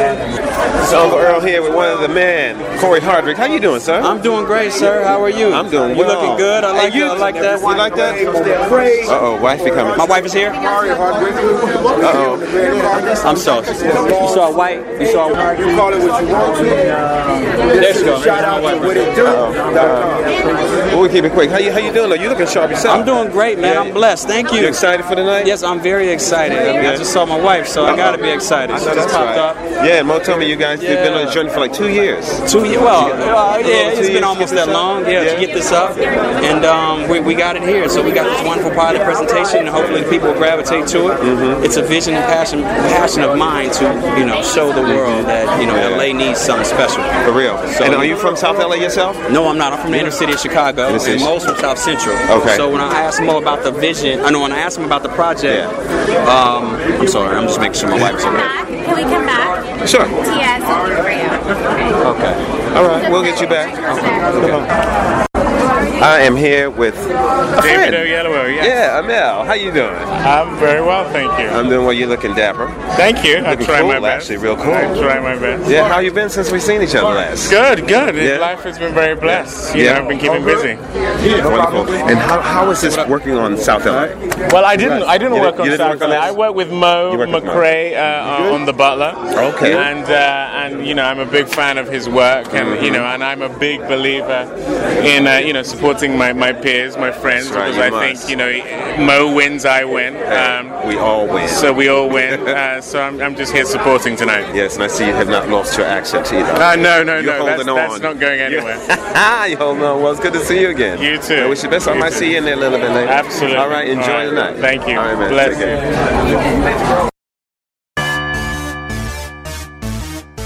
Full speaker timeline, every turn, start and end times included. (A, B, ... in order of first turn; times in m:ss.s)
0:00.8-0:04.1 A
0:04.0-0:08.2 B
0:05.5-0:08.3 A
0:08.0-0:09.1 C
0:09.0-0:10.0 A
0:09.9-0:10.6 B
0:10.7-0:13.2 C
0:12.0-0:12.6 A
0:13.2-0:15.4 B
0:13.9-0:14.2 C
0:15.4-0:17.0 C
0:17.7-0:20.3 C
0:17.8-0:18.6 B
0:19.2-0:20.2 A
0:20.9-0:24.0 A
0:22.9-0:24.8 B
0:24.6-0:25.5 A
0:25.4-0:29.6 B
0:26.7-0:27.1 A
0:27.8-0:35.5 A
0:30.8-0:31.4 B
0:32.4-0:47.1 B
0:41.2-0:41.6 A
0:44.8-0:46.1 A
0:47.2-0:49.2 A
0:47.7-0:48.2 B
0:49.3-0:55.7 B
0:50.9-0:51.4 A
0:52.3-0:52.6 A
0:55.5-0:55.7 A
0:56.2-0:58.5 B
0:58.0-0:58.4 A
0:58.8-0:59.5 D
0:59.8-1:00.2 A
1:00.2-1:01.4 D
1:02.0-1:04.7 A
1:06.0-1:10.1 A
1:07.6-1:08.8 E
1:10.2-1:11.7 E
1:11.5-1:15.1 A
1:13.0-1:15.7 E
1:15.6-1:17.6 A
1:17.4-1:20.8 E
1:18.2-1:18.5 A
1:19.2-1:20.2 A
1:20.2-1:20.7 C
1:21.2-1:22.2 C
1:21.3-1:24.2 A
1:24.5-1:40.8 E
1:24.7-1:26.4 A
1:27.1-1:27.7 A
1:29.4-1:29.9 A
1:32.5-1:33.1 A
1:37.3-1:38.3 A
1:40.3-1:42.4 A
1:41.5-1:44.5 E
1:44.5-1:55.8 A
1:46.6-1:48.8 E
1:51.0-1:52.3 E
1:53.0-1:55.8 E